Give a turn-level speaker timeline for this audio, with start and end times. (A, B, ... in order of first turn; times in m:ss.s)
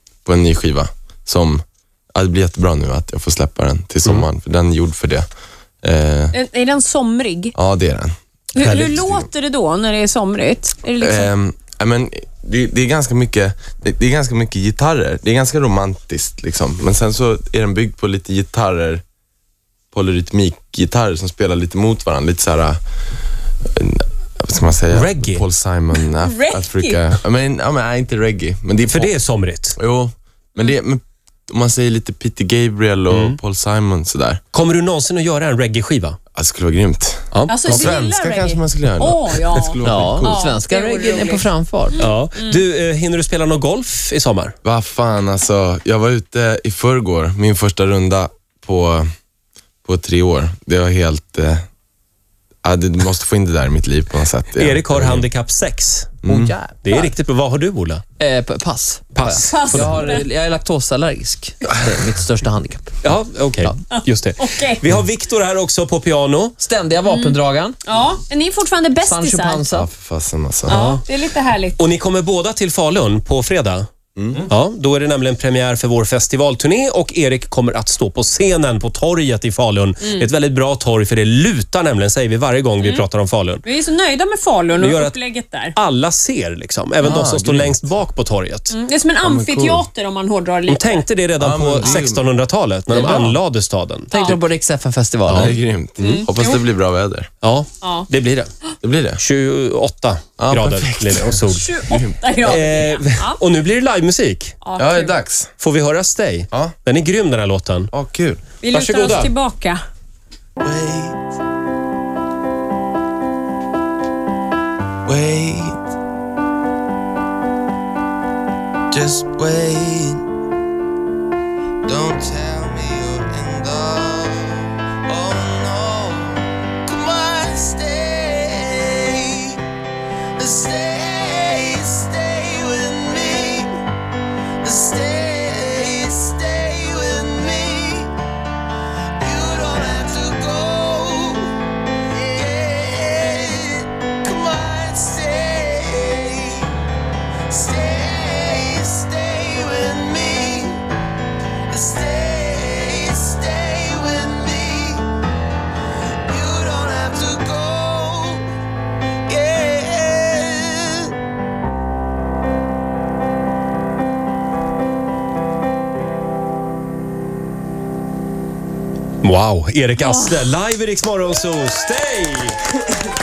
0:00.2-0:01.6 A
0:02.1-0:05.2 A
0:05.8-0:06.3 A
0:06.3-0:07.5 B
0:07.6-0:09.3 A
0:08.5-0:11.3 B
0:08.6-0:08.9 C
0:11.0-0:19.0 A
0:19.9-0:22.8 A
0:23.6-0:29.1 A
0:24.9-0:25.4 C
0:26.0-0:27.0 B
0:28.8-0:29.8 C
0:29.8-0:34.4 A
0:33.1-0:33.4 C
0:34.5-0:36.2 C
0:36.3-0:40.3 A
0:37.3-0:38.0 C
0:37.5-0:42.6 B
0:39.8-0:42.0 D
0:42.0-0:44.5 C
0:44.6-0:49.1 A
0:49.8-0:51.6 A
0:52.6-0:55.2 A
0:54.6-0:56.2 C
0:56.2-0:56.5 A
0:56.3-0:57.1 D
0:56.8-0:58.0 C
0:58.2-1:02.9 D
0:59.1-1:00.0 C
0:59.4-1:00.2 B
1:03.0-1:06.6 C
1:03.9-1:04.8 B
1:06.6-1:07.8 D
1:07.0-1:09.6 B
1:09.0-1:09.9 D
1:09.7-1:10.8 A
1:10.7-1:11.0 C
1:10.7-1:11.8 B
1:11.8-1:13.9 C
1:14.2-1:14.5 A
1:14.4-1:23.6 C
1:20.0-1:20.3 B
1:22.8-1:23.0 B
1:23.6-1:25.7 B
1:24.8-1:25.2 C
1:25.7-1:28.8 C
1:27.0-1:27.9 A
1:28.7-1:31.1 B
1:29.2-1:29.9 A
1:30.7-1:34.4 C
1:31.4-1:32.3 A
1:32.9-1:33.3 D
1:32.9-1:33.2 B
1:34.1-1:34.4 B
1:34.1-1:35.5 D
1:35.3-1:35.5 C
1:35.3-1:37.3 A
1:36.0-1:36.6 B
1:37.4-1:38.5 C
1:37.8-1:38.1 B
1:38.8-1:39.2 A
1:39.2-1:41.7 C
1:40.4-1:42.6 A
1:41.4-1:43.4 B
1:42.4-1:44.5 C
1:44.6-1:45.1 B
1:44.8-1:45.5 A
1:45.6-1:47.9 C
1:47.9-1:48.4 A
1:48.6-1:49.8 B
1:48.7-1:49.3 C
1:50.6-1:51.2 A
1:55.0-1:55.8 A
1:58.9-2:00.2 A
2:01.8-2:09.6 A
2:10.4-2:13.8 A
2:14.6-2:18.2 A
2:19.2-2:21.6 A
2:22.3-2:26.8 A
2:27.5-2:30.8 A
2:31.7-2:35.1 A
2:36.2-2:38.5 A
2:39.3-2:41.1 A
2:49.2-2:52.6 C
2:50.0-2:50.5 B